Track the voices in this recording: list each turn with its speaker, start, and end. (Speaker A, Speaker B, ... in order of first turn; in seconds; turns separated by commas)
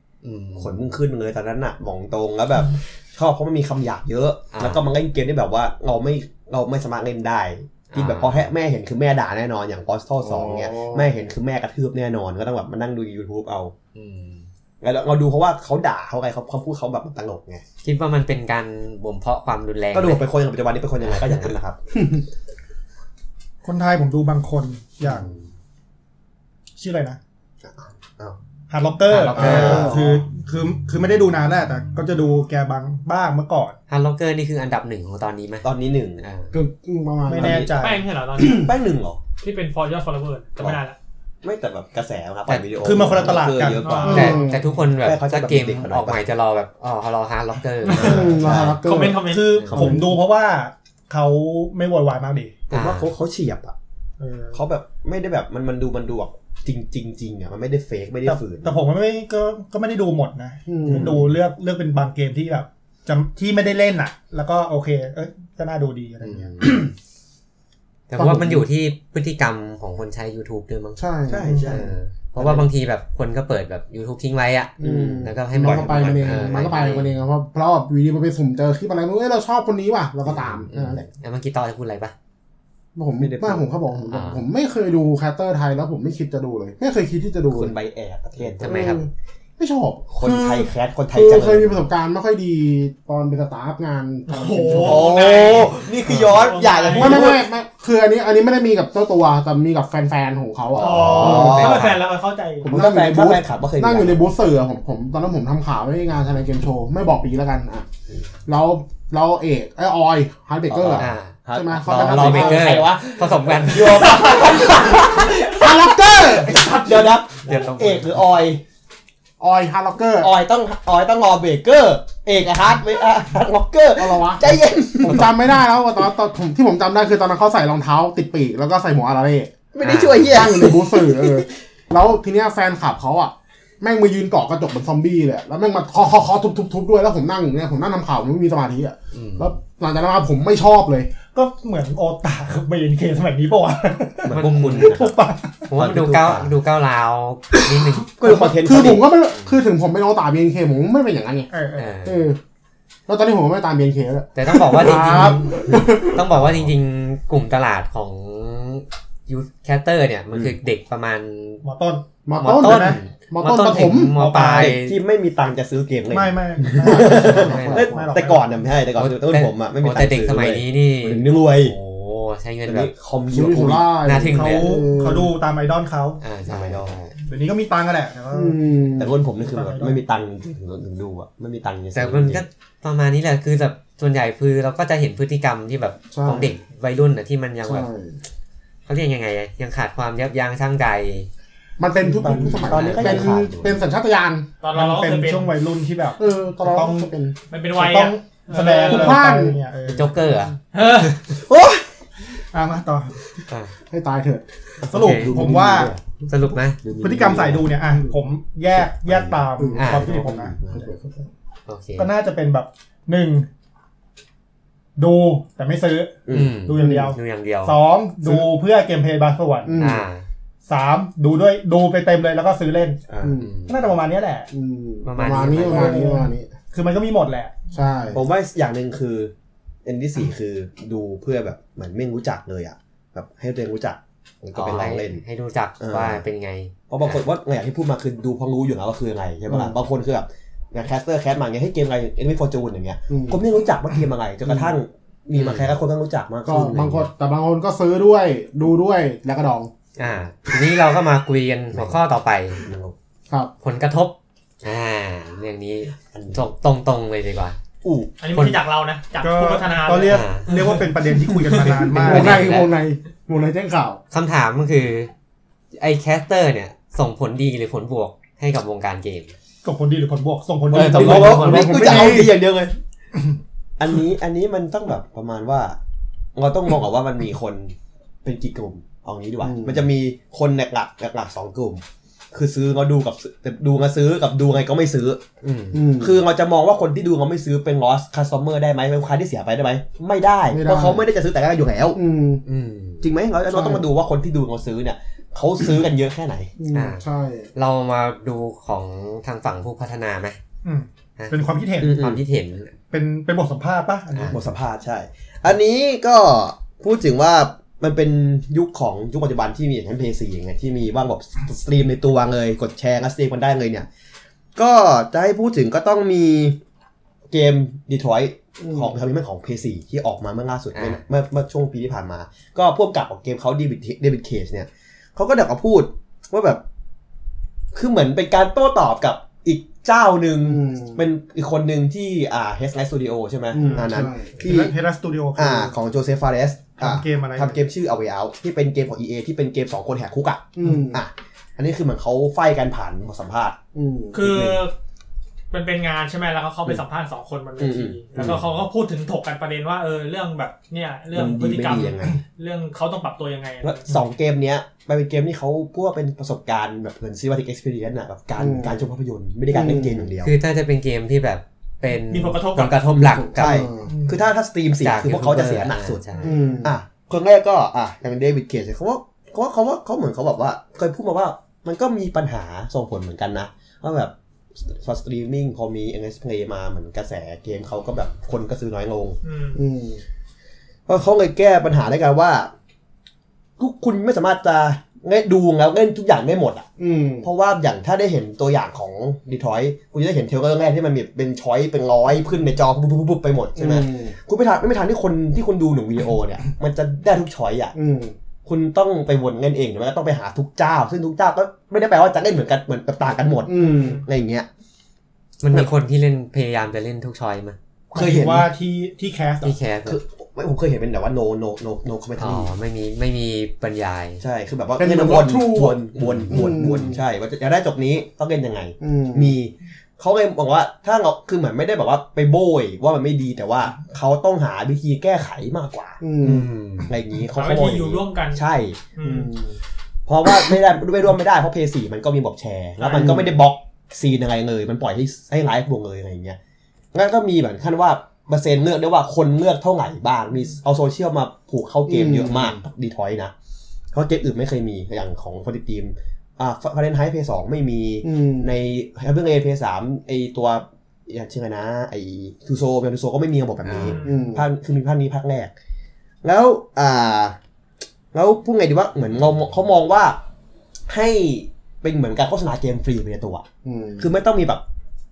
Speaker A: 0.2-0.9, Speaker B: 0.6-13.7, Speaker A: 4.5-4.8, Speaker A: 7.9-8.5, Speaker C: 10.2-11.1, Speaker A: 13.9-14.5, Speaker B: 14.8-17.6, Speaker A: 17.8-20.2, Speaker B: 19.9-21.8, Speaker A: 21.1-21.5, Speaker D: 23.6-25.3, Speaker D: 26.8-27.2, Speaker B: 27.6-28.4, Speaker D: 28.7-33.8, Speaker A: 29.1-30.0, Speaker B: 29.4-30.1, Speaker C: 29.4-30.1, Speaker A: 33.9-35.7, Speaker B: 35.6-36.2, Speaker A: 36.2-36.6, Speaker C: 36.5-37.7, Speaker D: 37.3-38.1, Speaker B: 37.4-37.7, Speaker E: 37.8-38.7, Speaker C: 38.4-38.7, Speaker B: 38.5-39.2, Speaker E: 39.4-41.0, Speaker B: 41.4-44.4, Speaker D: 42.8-44.4, Speaker E: 43.8-44.4, Speaker C: 44.0-44.6, Speaker A: 44.1-48.6, Speaker B: 45.0-46.2, Speaker B: 47.9-48.8, Speaker C: 48.0-50.1, Speaker E: 48.8-49.5, Speaker D: 49.2-52.6, Speaker A: 49.6-49.9, Speaker A: 52.7-53.1, Speaker B: 52.7-53.8, Speaker D: 54.2-54.6, Speaker B: 54.5-58.8, Speaker D: 58.2-66.9, Speaker C: 60.7-61.2, Speaker B: 60.9-61.2, Speaker A: 66.2-66.8, Speaker A: 68.1-71.1, Speaker C: 68.2-68.7, Speaker C: 71.0-71.8, Speaker B: 71.3-72.7, Speaker D: 71.5-71.8, Speaker A: 71.6-77.2, Speaker C: 74.8-81.0, Speaker B: 74.8-76.8, Speaker B: 80.2-81.1, Speaker A: 80.7-82.1, Speaker C: 82.9-87.8, Speaker B: 83.2-83.7, Speaker A: 84.1-84.4, Speaker B: 87.5-88.9, Speaker A: 88.6-89.1, Speaker C: 88.6-95.6, Speaker B: 90.1-91.8, Speaker E: 94.3-97.3, Speaker B: 94.7-97.5, Speaker C: 96.9-101.8, Speaker B: 100.8-101.9, Speaker E: 100.8-102.7, Speaker A: 101.0-102.0, Speaker C: 102.6-107.9, Speaker B: 102.6-104.2, Speaker C: 108.5-112.8, Speaker B: 110.7-118.6, Speaker A: 111.0-114.3, Speaker C: 114.6-116.8, Speaker A: 117.4-118.2, Speaker C: 119.4-120.3, Speaker B: 120.2-125.5, Speaker C: 124.0-129.5, Speaker B: 129.7-131.5, Speaker A: 129.8-130.4, Speaker C: 130.3-141.1, Speaker A: 139.1-139.6, Speaker D: 141.3-145.7, Speaker B: 144.2-145.1, Speaker A: 144.3-145.0, Speaker A: 145.7-148.1, Speaker B: 145.8-146.5, Speaker C: 147.9-151.5, Speaker B: 148.2-149.1, Speaker D: 151.5-152.0, Speaker A: 151.8-152.3, Speaker C: 152.1-152.4, Speaker C: 153.1-156.3, Speaker A: 154.3-161.6, Speaker D: 161.6-163.0, Speaker C: 162.3-164.2, Speaker A: 162.4-165.0, Speaker D: 164.1-164.8, Speaker B: 164.5-171.8, Speaker D: 166.1-168.4, Speaker C: 166.9-168.1, Speaker A: 167.2-167.9, Speaker A: 168.9-172.9, Speaker B: 172.6-173.9, Speaker C: 173.3-175.3, Speaker A: 174.0-174.7, Speaker D: 174.3-176.2, Speaker A: 176.2-177.1, Speaker B: 176.5-177.0, Speaker D: 177.2-178.6, Speaker C: 178.3-179.1, Speaker B: 179.0-182.4, Speaker D: 179.4-180.0, Speaker A: 181.9-187.9, Speaker C: 186.1-186.5, Speaker C: 187.6-188.2, Speaker A: 188.9-191.3, Speaker C: 191.8-194.5, Speaker B: 192.1-193.8, Speaker A: 192.7-193.4, Speaker E: 194.6-195.5, Speaker D: 194.7-197.1, Speaker C: 196.2-197.3, Speaker E: 197.5-199.2, Speaker D: 197.7-200.2, Speaker C: 198.8-199.6, Speaker A: 199.9-200.6, Speaker E: 200.7-201.2, Speaker B: 201.4-201.9, Speaker D: 202.5-203.2, Speaker A: 203.5-203.7, Speaker C: 203.9-204.5, Speaker B: 204.8-206.0, Speaker D: 204.9-205.9, Speaker A: 204.9-205.4, Speaker A: 206.3-206.8, Speaker B: 206.8-207.7, Speaker D: 206.9-211.3, Speaker B: 208.8-210.9, Speaker C: 209.6-210.9, Speaker A: 209.8-210.1, Speaker A: 211.7-212.1, Speaker D: 212.0-213.5, Speaker D: 215.0-219.9, Speaker B: 216.3-216.5, Speaker A: 216.3-217.8, Speaker C: 216.8-217.1, Speaker C: 219.6-220.0, Speaker A: 219.8-220.2, Speaker D: 220.7-223.1, Speaker B: 223.1-223.4, Speaker C: 223.2-223.5, Speaker A: 223.4-223.9, Speaker D: 223.7-224.5, Speaker C: 224.5-226.5, Speaker A: 225.1-226.0, Speaker D: 225.6-227.6, Speaker C: 227.7-228.2, Speaker B: 228.1-229.3, Speaker B: 229.8-235.2, Speaker A: 234.5-237.2, Speaker B: 235.8-236.2, Speaker B: 236.9-247.1, Speaker C: 239.5-239.8, Speaker C: 243.1-243.4, Speaker C: 244.5-244.7, Speaker A: 245.3-245.7, Speaker C: 246.5-249.7, Speaker A: 250.0-252.6, Speaker B: 251.7-252.0, Speaker B: 252.6-252.9, Speaker A: 253.6-257.6, Speaker B: 256.1-256.5, Speaker B: 257.8-258.1, Speaker E: 258.2-260.9, Speaker A: 258.3-258.6, Speaker D: 259.2-262.5, Speaker A: 260.1-260.5, Speaker C: 261.6-264.0, Speaker A: 261.9-262.7, Speaker A: 264.1-265.1, Speaker A: 265.8-269.3, Speaker D: 269.6-271.6, Speaker A: 270.7-272.3, Speaker B: 270.7-272.8, Speaker C: 271.0-272.4, Speaker B: 273.8-275.8, Speaker B: 276.4-285.2, Speaker C: 279.4-279.8, Speaker A: 285.4-285.9, Speaker C: 285.7-286.2, Speaker B: 286.0-292.0, Speaker C: 290.5-291.0, Speaker C: 291.9-292.4, Speaker A: 292.4-293.1, Speaker B: 293.0-296.5, Speaker C: 293.5-293.8, Speaker C: 296.6-297.5, Speaker A: 296.7-297.0, Speaker A: 297.6-300.4, Speaker D: 300.6-302.0, Speaker A: 301.2-302.7, Speaker B: 301.8-302.2, Speaker D: 302.9-304.4, Speaker A: 304.1-304.4, Speaker B: 304.3-313.9, Speaker B: 314.6-316.6, Speaker B: 317.3-326.6, Speaker C: 318.6-319.0, Speaker A: 320.7-321.0, Speaker B: 327.7-334.7, Speaker C: 330.4-331.0, Speaker C: 333.5-334.4, Speaker D: 334.4-335.7, Speaker B: 335.4-343.6, Speaker D: 336.8-337.6, Speaker C: 340.6-341.0, Speaker C: 343.7-344.2, Speaker E: 344.1-344.7, Speaker B: 344.1-344.6, Speaker E: 345.5-353.8, Speaker B: 347.6-348.5, Speaker B: 351.1-352.2, Speaker B: 353.6-360.3, Speaker C: 358.4-358.8, Speaker C: 359.5-360.1, Speaker A: 360.2-363.7, Speaker E: 362.1-362.8, Speaker B: 362.9-366.1, Speaker C: 363.1-363.9, Speaker D: 363.9-364.2, Speaker A: 364.8-366.3, Speaker C: 366.2-366.7, Speaker B: 366.6-379.2, Speaker E: 379.2-379.6, Speaker C: 379.6-380.0, Speaker B: 380.9-382.5, Speaker B: 383.6-386.7, Speaker C: 386.8-387.3, Speaker B: 387.2-397.8, Speaker C: 393.6-394.1, Speaker C: 397.7-398.1, Speaker B: 398.5-404.5, Speaker C: 403.4-404.0, Speaker E: 403.6-404.0, Speaker A: 405.4-407.6, Speaker B: 407.9-408.5, Speaker D: 407.9-409.6, Speaker A: 409.4-410.0, Speaker B: 409.9-412.5, Speaker A: 412.2-414.2, Speaker B: 414.2-428.9, Speaker C: 414.8-417.0, Speaker A: 416.0-416.4, Speaker C: 418.8-419.4, Speaker C: 426.0-426.5, Speaker A: 426.2-426.9, Speaker E: 427.4-428.4, Speaker E: 429.0-429.3, Speaker C: 429.0-429.6, Speaker B: 430.1-436.4, Speaker E: 432.8-433.2, Speaker C: 432.9-433.3, Speaker B: 436.9-443.3, Speaker C: 441.9-442.6, Speaker B: 443.9-455.5, Speaker C: 448.0-448.5, Speaker A: 453.6-454.0, Speaker E: 453.7-454.4, Speaker C: 454.0-454.4, Speaker B: 456.2-457.4, Speaker B: 458.1-460.2, Speaker B: 460.9-463.4, Speaker C: 463.6-464.1, Speaker B: 464.0-464.6